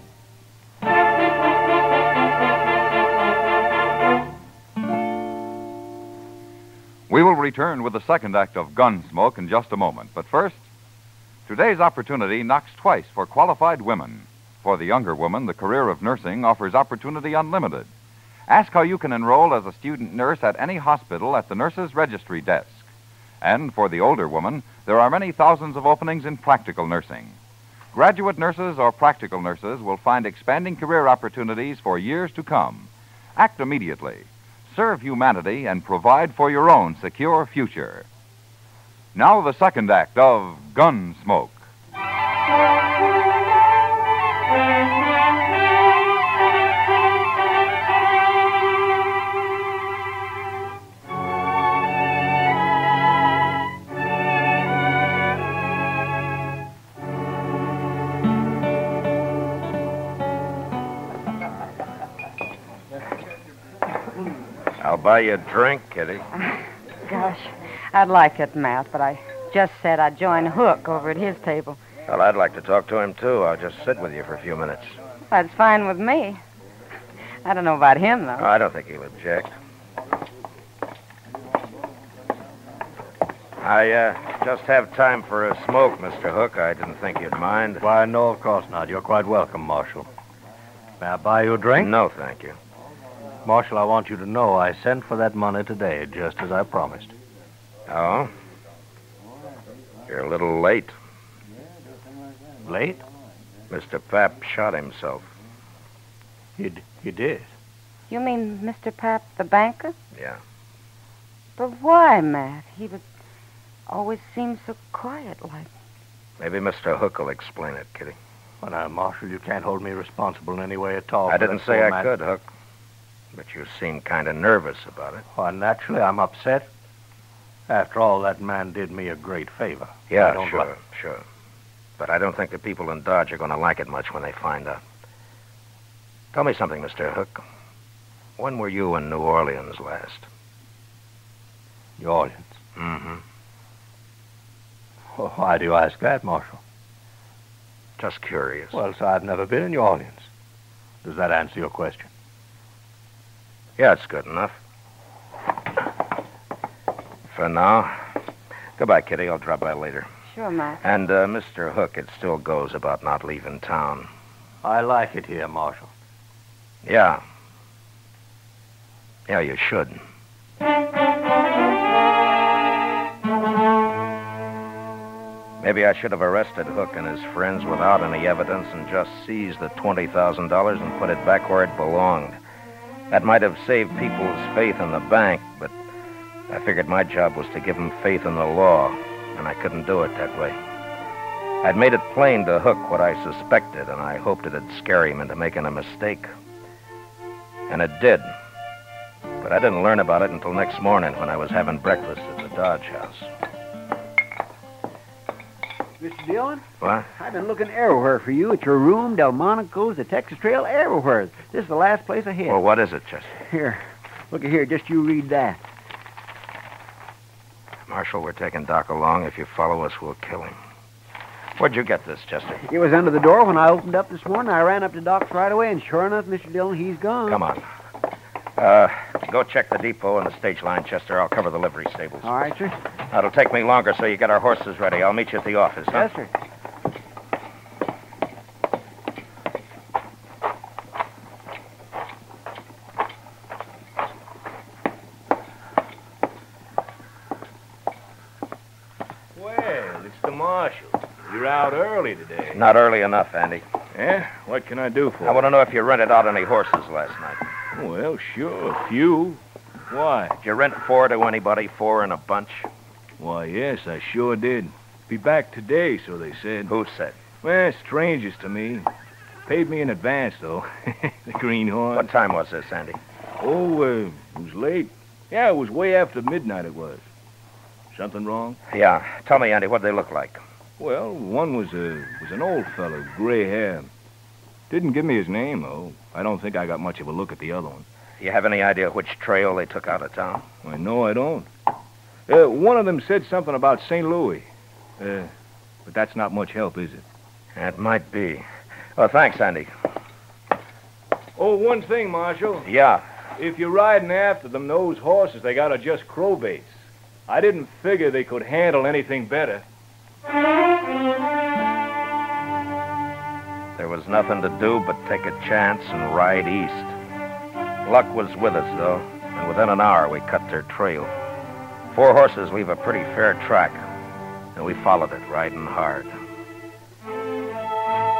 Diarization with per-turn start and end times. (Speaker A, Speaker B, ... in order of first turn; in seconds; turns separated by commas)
Speaker A: 7.1-10.6, Speaker A: 11.4-17.9, Speaker A: 18.5-22.9, Speaker A: 23.4-27.4, Speaker A: 27.9-38.1, Speaker A: 39.1-41.6, Speaker B: 64.8-66.3, Speaker C: 67.1-71.8, Speaker B: 72.1-75.0, Speaker C: 75.3-76.4, Speaker C: 77.4-78.5, Speaker B: 78.4-79.5, Speaker B: 83.6-87.8, Speaker D: 87.8-90.1, Speaker D: 91.0-91.9, Speaker B: 91.8-92.6, Speaker D: 93.4-97.1, Speaker B: 97.9-98.3, Speaker B: 100.1-101.0, Speaker D: 102.6-103.0, Speaker B: 103.7-105.3, Speaker D: 106.6-107.5, Speaker C: 108.1-109.9, Speaker B: 110.1-110.4, Speaker C: 111.6-113.0, Speaker C: 113.9-115.7, Speaker B: 116.4-118.2, Speaker D: 118.6-122.1, Speaker B: 121.3-122.5, Speaker B: 123.3-125.2, Speaker D: 125.3-126.7, Speaker D: 127.7-130.7, Speaker B: 130.1-131.2, Speaker B: 132.0-134.8, Speaker B: 136.3-137.4, Speaker B: 138.4-140.3, Speaker D: 142.0-142.6, Speaker B: 142.8-143.2, Speaker D: 145.1-146.6, Speaker B: 148.0-148.8, Speaker D: 148.7-150.3, Speaker D: 151.0-152.1, Speaker B: 153.8-154.6, Speaker B: 157.3-158.0, Speaker B: 158.8-160.1, Speaker C: 160.3-160.8, Speaker B: 160.8-164.1, Speaker D: 164.6-165.9, Speaker B: 166.8-167.2, Speaker B: 169.3-170.0, Speaker B: 175.6-182.4, Speaker B: 183.1-185.7, Speaker B: 186.5-190.6, Speaker B: 191.6-196.3, Speaker B: 197.7-198.3, Speaker B: 199.4-203.3, Speaker E: 206.0-212.6, Speaker B: 206.8-207.1, Speaker B: 212.5-213.3, Speaker E: 213.3-215.6, Speaker B: 217.9-220.6, Speaker B: 221.6-222.6, Speaker E: 222.6-227.4, Speaker B: 227.2-227.6, Speaker B: 228.6-232.3, Speaker E: 232.2-232.8, Speaker B: 233.1-236.1, Speaker E: 235.9-236.3, Speaker F: 249.3-252.6, Speaker B: 252.5-253.6, Speaker F: 253.9-255.4, Speaker B: 255.2-257.4, Speaker F: 257.7-260.3, Speaker B: 260.4-262.7, Speaker F: 263.2-266.7, Speaker B: 266.7-267.2, Speaker F: 267.4-268.9, Speaker F: 269.5-272.1, Speaker B: 271.9-273.0, Speaker F: 273.4-277.0, Speaker F: 277.9-278.6, Speaker B: 278.7-280.4, Speaker F: 280.8-283.9, Speaker F: 284.7-287.8, Speaker B: 288.2-290.5, Speaker F: 290.6-291.5, Speaker F: 292.3-294.5, Speaker F: 295.0-295.3, Speaker F: 295.9-297.0, Speaker B: 297.6-298.4, Speaker B: 298.9-299.7, Speaker F: 301.4-302.7, Speaker B: 302.6-303.0, Speaker F: 303.4-309.6, Speaker B: 313.8-316.9, Speaker B: 317.8-321.1, Speaker B: 321.9-323.8, Speaker B: 324.5-326.1